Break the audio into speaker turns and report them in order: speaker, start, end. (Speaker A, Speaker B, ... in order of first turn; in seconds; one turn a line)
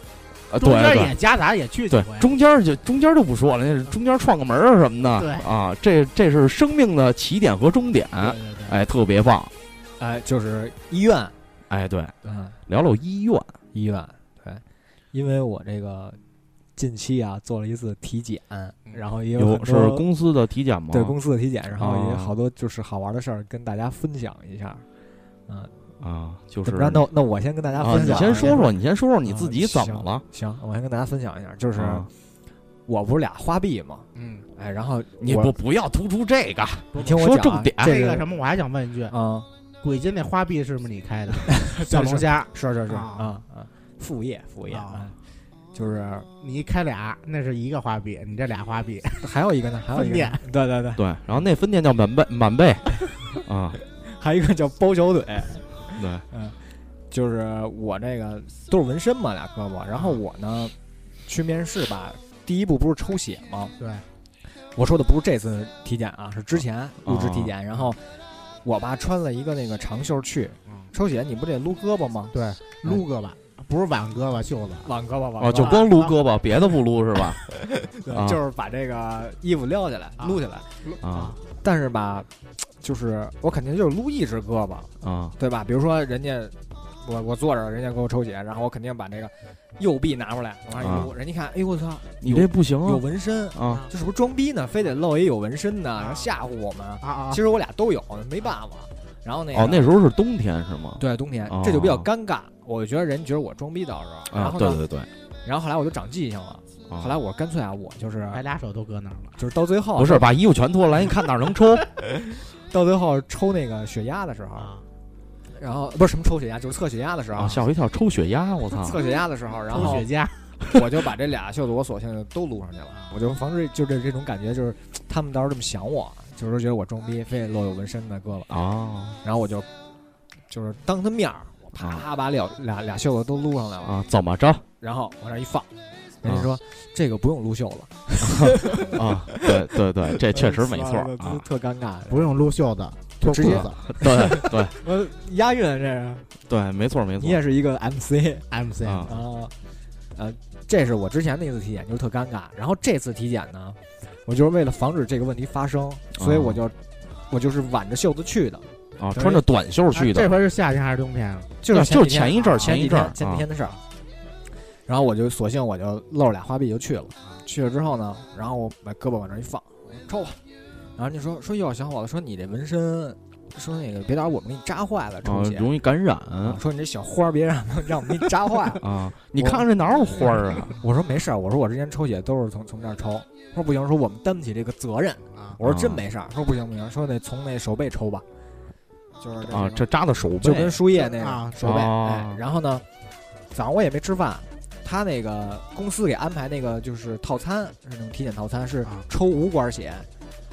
Speaker A: 0.5-1.1
Speaker B: 0.6-2.3
Speaker A: 1.9-9.5
Speaker B: 5.2-5.5
Speaker B: 8.2-8.8
Speaker C: 10.0-11.3
Speaker A: 11.7-12.2
Speaker C: 12.2-12.6
Speaker A: 12.7-13.5
Speaker C: 13.7-16.2
Speaker C: 16.8-20.1
Speaker A: 19.3-21.1
Speaker C: 20.9-24.8
Speaker A: 21.8-22.3
Speaker C: 25.5-25.7
Speaker A: 26.0-27.0
Speaker C: 26.6-28.7
Speaker A: 27.8-30.2
Speaker B: 27.8-28.7
Speaker C: 29.2-32.1
Speaker A: 31.8-32.1
Speaker C: 32.9-35.5
Speaker B: 34.1-34.4
Speaker A: 35.2-38.0
Speaker C: 37.0-38.3
Speaker B: 37.8-39.1
Speaker C: 39.1-39.5
Speaker B: 39.8-43.3
Speaker C: 41.5-45.2
Speaker B: 44.7-45.0
Speaker C: 45.7-46.3
Speaker B: 46.4-49.2
Speaker C: 49.2-51.0
Speaker B: 49.9-50.4
Speaker A: 51.0-52.9
Speaker A: 53.4-53.8
Speaker C: 53.9-56.6
Speaker A: 55.9-56.2
Speaker C: 57.1-60.7
Speaker C: 61.2-63.7
Speaker B: 63.8-64.0
Speaker C: 64.7-68.0
Speaker A: 67.0-67.5
Speaker C: 68.6-73.0
Speaker B: 72.3-74.9
Speaker C: 74.8-75.8
Speaker A: 75.4-77.4
Speaker B: 75.5-76.1
Speaker C: 77.7-80.7
Speaker A: 78.1-78.4
Speaker B: 80.2-81.4
Speaker A: 81.0-81.4
Speaker C: 81.5-99.9
Speaker A: 85.0-85.3
Speaker A: 90.8-91.1
Speaker A: 92.2-93.8
Speaker B: 93.6-93.9
Speaker B: 96.0-96.3
Speaker B: 97.0-97.4
Speaker A: 99.5-102.1
Speaker C: 101.0-104.8
Speaker A: 104.3-105.1
Speaker C: 105.4-108.4
Speaker B: 108.3-109.3
Speaker C: 109.4-110.3
Speaker A: 110.0-111.8
Speaker C: 112.0-114.7
Speaker B: 114.6-114.8
Speaker C: 115.5-117.6
Speaker A: 117.3-119.0
Speaker C: 118.7-120.1
Speaker B: 119.7-120.4
Speaker A: 119.7-120.0
Speaker C: 120.7-128.5
Speaker A: 128.5-129.2
Speaker C: 129.2-129.7
Speaker C: 130.5-134.0
Speaker A: 131.8-132.0
Speaker A: 133.8-134.6
Speaker C: 134.8-135.7
Speaker C: 136.2-142.3
Speaker A: 136.2-136.5
Speaker A: 138.2-141.4
Speaker B: 142.1-143.8
Speaker C: 143.2-146.3
Speaker A: 143.4-144.7
Speaker A: 146.5-147.4
Speaker C: 147.2-148.5
Speaker B: 148.5-149.1
Speaker A: 148.8-149.1
Speaker C: 149.0-149.5
Speaker C: 150.2-156.8
Speaker A: 156.2-156.6
Speaker C: 157.3-159.4
Speaker A: 159.0-160.3
Speaker B: 159.9-161.5
Speaker C: 161.6-163.8
Speaker A: 161.7-163.4
Speaker C: 164.8-170.4
Speaker C: 170.9-175.7
Speaker A: 175.2-176.6
Speaker C: 176.4-179.6
Speaker A: 178.8-180.8
Speaker C: 180.8-188.2
Speaker A: 185.6-186.1
Speaker C: 189.2-189.9
Speaker A: 189.4-190.8
Speaker C: 190.4-192.8
Speaker B: 190.9-191.7
Speaker A: 191.6-192.4
Speaker C: 193.5-200.1